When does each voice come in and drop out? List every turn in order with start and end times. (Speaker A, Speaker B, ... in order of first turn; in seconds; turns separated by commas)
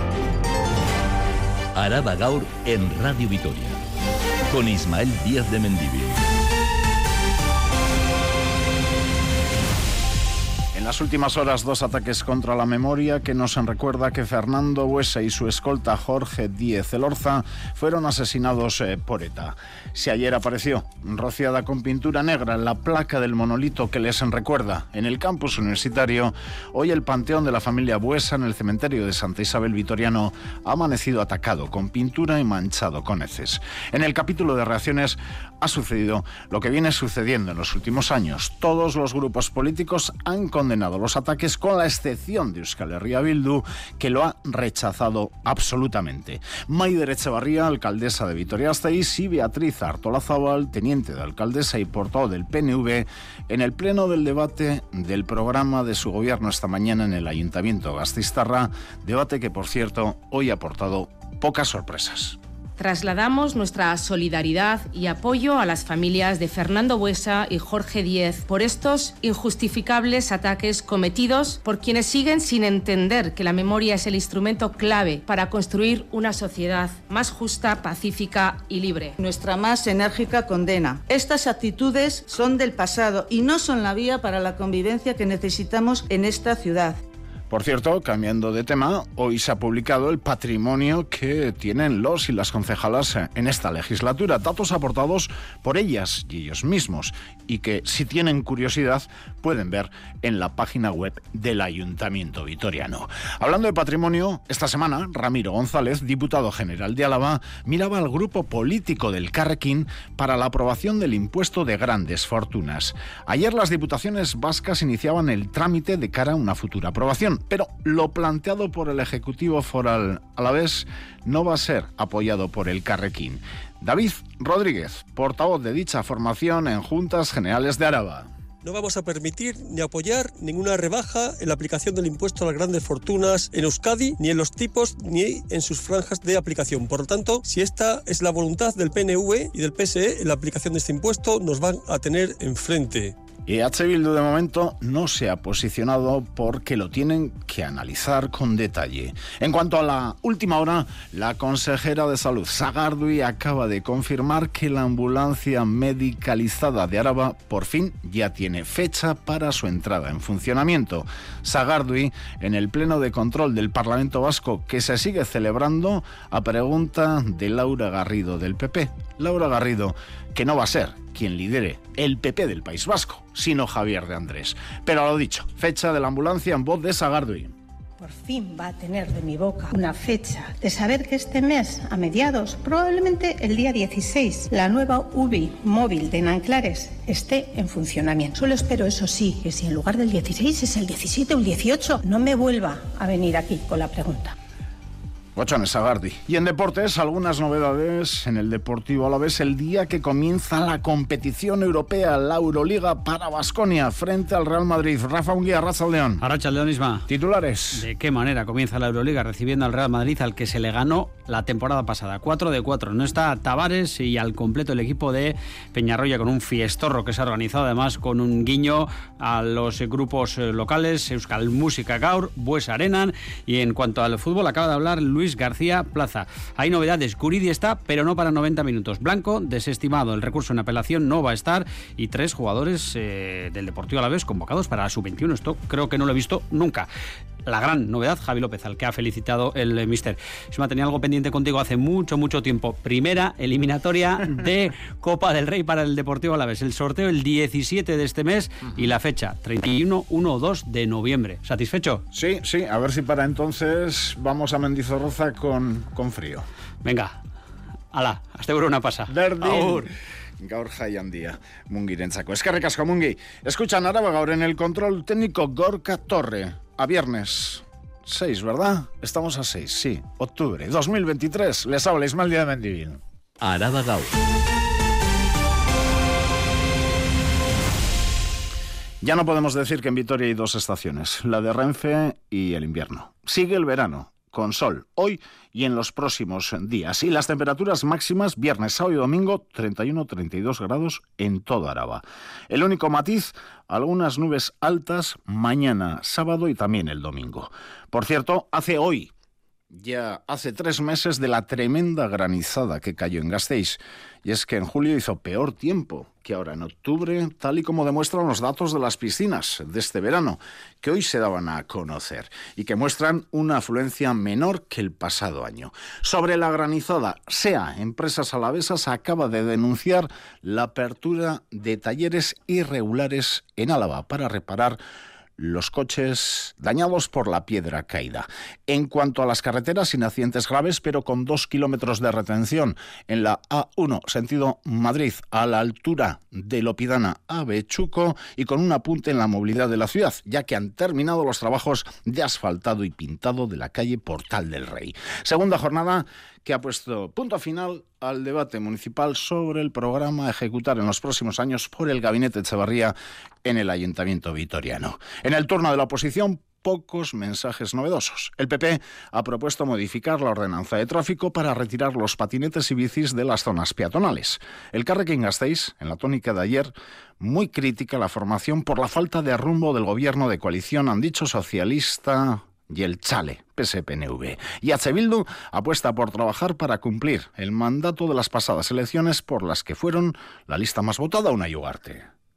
Speaker A: 1.7-3.8, Speaker A: 4.5-6.2, Speaker B: 10.7-62.4, Speaker C: 62.8-79.2, Speaker D: 79.2-87.0, Speaker B: 87.5-128.3, Speaker E: 128.6-143.1, Speaker B: 143.5-177.5, Speaker F: 178.0-194.3, Speaker B: 195.3-206.2, Speaker G: 206.2-207.1, Speaker B: 207.1-207.8, Speaker G: 207.7-236.9, Speaker G: 237.4-252.0, Speaker B: 252.1-256.4, Speaker G: 256.8-257.1, Speaker G: 257.9-259.9, Speaker B: 259.1-259.9, Speaker B: 260.4-273.0, Speaker A: 273.4-274.1, Speaker B: 279.0-299.1, Speaker B: 299.7-324.8, Speaker B: 325.4-382.1